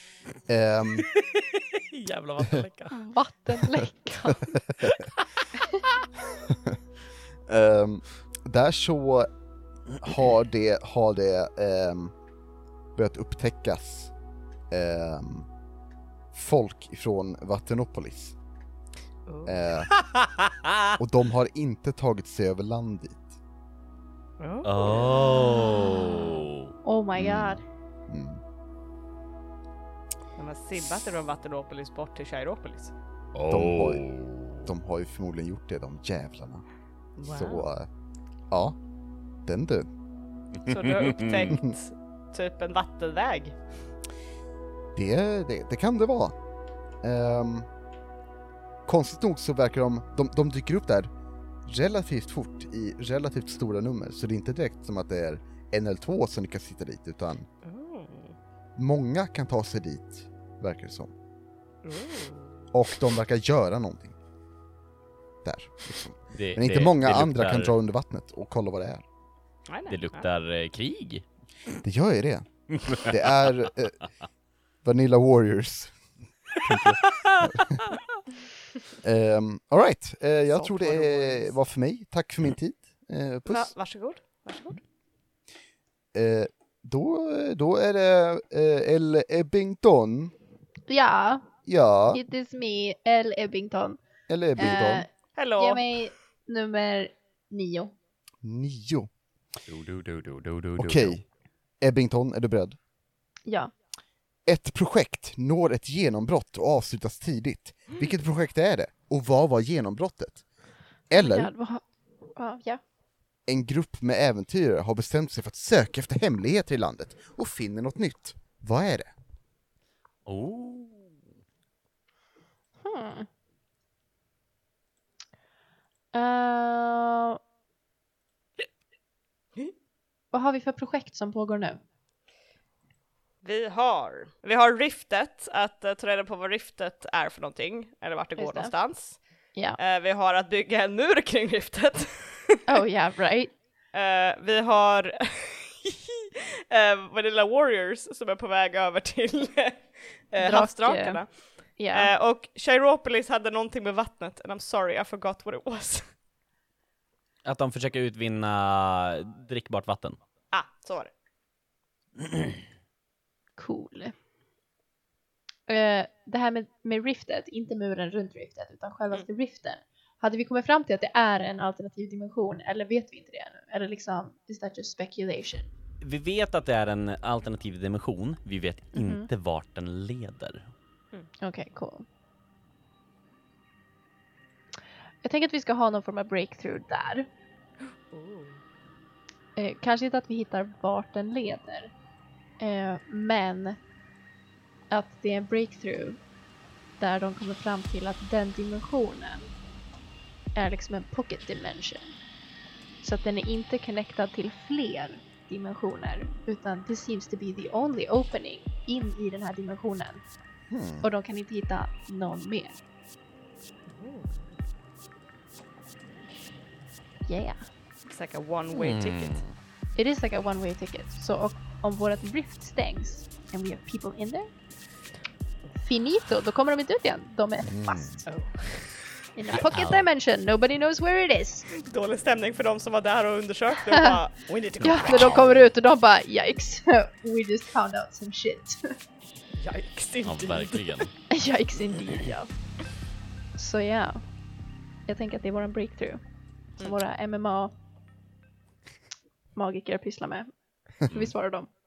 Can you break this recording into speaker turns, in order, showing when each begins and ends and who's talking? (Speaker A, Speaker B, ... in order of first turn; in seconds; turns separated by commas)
Speaker A: 0.5-1.1, Speaker B: 1.3-3.0, Speaker C: 2.9-4.5, Speaker A: 4.4-5.0, Speaker A: 6.5-6.8, Speaker A: 7.5-9.3, Speaker A: 10.0-12.1, Speaker A: 13.0-14.1, Speaker A: 14.7-15.5, Speaker A: 16.3-18.4, Speaker D: 19.3-19.6, Speaker A: 19.5-19.9, Speaker B: 20.0-21.0, Speaker A: 21.0-23.4, Speaker D: 24.4-25.4, Speaker B: 24.6-26.7, Speaker C: 26.8-27.6, Speaker A: 27.2-27.6, Speaker A: 28.1-28.4, Speaker D: 30.4-32.9, Speaker B: 33.3-34.7, Speaker A: 33.5-34.0, Speaker A: 34.6-36.6, Speaker D: 37.2-37.6, Speaker A: 37.2-37.9, Speaker A: 38.5-38.8, Speaker A: 39.5-39.9, Speaker B: 40.7-41.5, Speaker D: 40.7-43.6, Speaker A: 45.0-46.4, Speaker A: 47.0-47.7, Speaker A: 48.9-51.1, Speaker A: 51.7-57.5, Speaker D: 57.6-58.4, Speaker A: 58.8-61.1, Speaker D: 61.9-62.5, Speaker A: 62.7-64.2, Speaker A: 65.4-69.0, Speaker B: 66.3-67.7, Speaker D: 69.7-70.3, Speaker B: 69.9-71.2, Speaker A: 71.8-74.0, Speaker B: 72.8-73.1, Speaker A: 74.8-75.9, Speaker A: 76.6-78.0, Speaker B: 76.7-78.0, Speaker A: 79.0-83.7, Speaker D: 80.5-81.5, Speaker D: 83.5-84.8, Speaker A: 86.1-90.3, Speaker C: 90.9-91.4, Speaker A: 91.7-92.2, Speaker C: 92.1-94.0, Speaker A: 94.3-95.1, Speaker C: 94.6-97.9, Speaker D: 95.4-96.0, Speaker A: 98.4-99.1, Speaker B: 99.7-101.2, Speaker A: 100.8-101.2, Speaker A: 101.8-102.8, Speaker C: 103.5-103.7, Speaker A: 104.5-110.4, Speaker A: 111.1-111.5, Speaker C: 111.2-111.8, Speaker C: 112.3-112.8, Speaker A: 113.5-119.1, Speaker B: 120.3-121.1, Speaker C: 122.8-123.3, Speaker C: 126.1-127.4, Speaker C: 130.3-131.8, Speaker D: 133.4-139.2, Speaker C: 138.4-138.8, Speaker D: 139.8-142.8, Speaker C: 142.7-143.5, Speaker D: 143.9-151.3, Speaker C: 150.4-151.2, Speaker C: 151.8-152.1, Speaker D: 151.9-156.1, Speaker B: 157.4-160.2, Speaker D: 160.5-161.1, Speaker C: 163.6-164.1, Speaker C: 165.7-175.7, Speaker B: 176.0-180.7, Speaker C: 178.9-179.3, Speaker C: 181.4-182.1, Speaker C: 185.2-187.3, Speaker D: 188.1-188.6, Speaker C: 189.6-191.9, Speaker C: 192.6-193.8, Speaker C: 194.9-196.2, Speaker C: 197.0-199.5, Speaker C: 200.6-202.2, Speaker C: 203.0-210.2, Speaker A: 210.7-211.1, Speaker C: 211.0-212.8, Speaker D: 213.9-214.5, Speaker C: 217.3-217.6, Speaker D: 218.1-219.4, Speaker B: 218.7-219.5, Speaker C: 220.0-224.5, Speaker C: 225.8-228.2, Speaker A: 227.7-228.2, Speaker D: 228.3-228.9, Speaker C: 229.3-231.7, Speaker B: 229.5-230.0, Speaker D: 231.8-235.4, Speaker B: 234.8-235.6, Speaker C: 234.8-238.9, Speaker D: 239.6-241.1, Speaker B: 240.2-241.1, Speaker C: 241.3-242.5, Speaker C: 243.6-244.2, Speaker C: 245.1-246.2, Speaker C: 246.8-247.7, Speaker C: 249.6-250.5, Speaker C: 251.1-251.7